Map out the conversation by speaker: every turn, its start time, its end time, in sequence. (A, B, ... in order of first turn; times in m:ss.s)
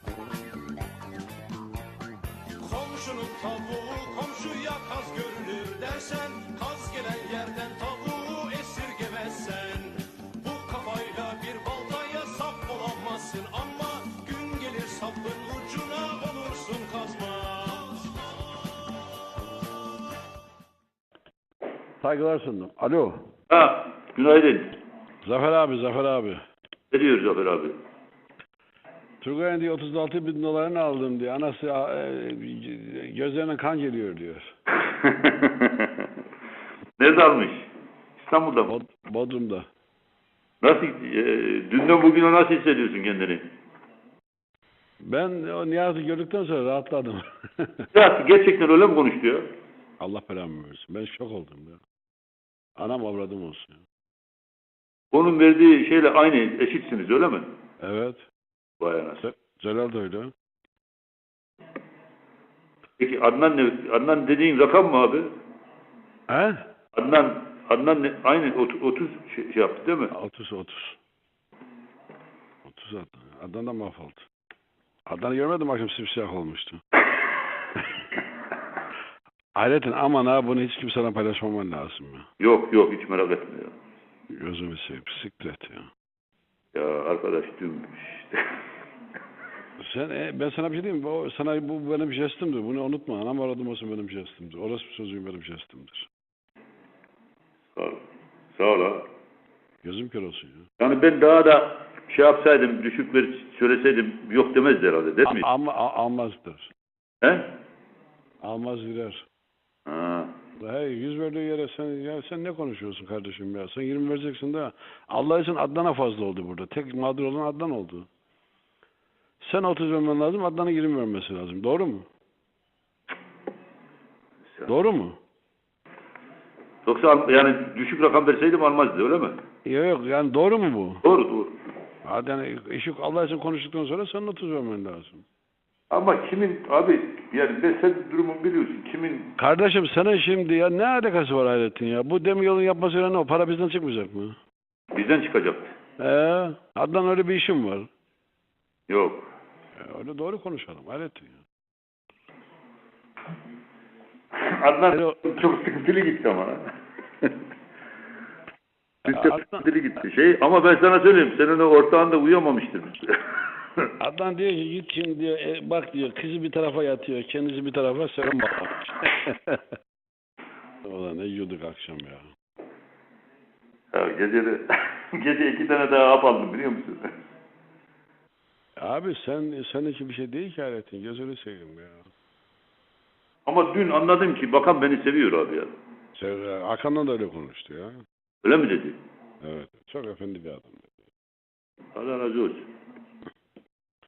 0:02.6-0:18.1 A
0:22.0-0:23.2 B
0:23.5-0:24.8 C
0:25.2-0:26.4 B
0:26.9-0:27.8 C
0:29.2-0:34.5 B
0:34.8-0:36.0 C
0:37.0-0:37.7 C
0:38.2-0:38.7 C
0:38.7-0:39.7 B
0:40.6-0:43.4 C
0:45.0-0:47.9 B
0:47.9-0:49.5 C
0:50.0-0:51.8 B
0:52.8-0:53.8 B
0:55.1-0:57.5 C
0:57.8-0:58.2 B
0:58.8-0:59.2 C
0:59.2-1:00.3 B
1:03.0-1:05.3 C
1:06.3-1:06.6 B
1:06.9-1:10.1 C
1:10.1-1:11.0 B
1:12.6-1:14.3 B
1:15.0-1:16.8 B
1:19.6-1:22.3 B
1:22.4-1:23.8 C
1:24.3-1:25.9 B
1:26.7-1:28.4 C
1:29.8-1:36.1 B
1:37.7-1:38.0 C
1:38.5-1:39.0 C
1:39.8-1:40.6 B
1:40.8-1:45.4 C
1:45.2-1:46.7 B
1:47.2-1:47.5 C
1:48.4-1:49.3 B
1:49.9-1:50.3 C
1:50.6-1:58.1 B
1:59.4-2:02.0 B
2:04.7-2:05.2 B
2:06.8-2:09.4 C
2:09.6-2:11.0 B
2:11.0-2:11.5 C
2:12.0-2:15.2 B
2:15.9-2:19.3 C
2:19.4-2:24.3 B
2:24.9-2:25.7 C
2:26.0-2:27.9 B
2:28.9-2:29.3 C
2:29.8-2:31.4 B
2:34.4-2:36.7 C
2:34.9-2:35.4 B
2:39.1-2:39.6 B
2:39.1-2:43.2 C
2:44.0-2:49.6 B
2:50.8-2:52.3 B
2:53.9-2:57.1 C
2:58.8-3:02.1 B
3:03.5-3:05.7 C
3:06.2-3:08.0 B
3:08.4-3:09.0 C
3:09.4-3:11.0 B
3:11.9-3:12.7 C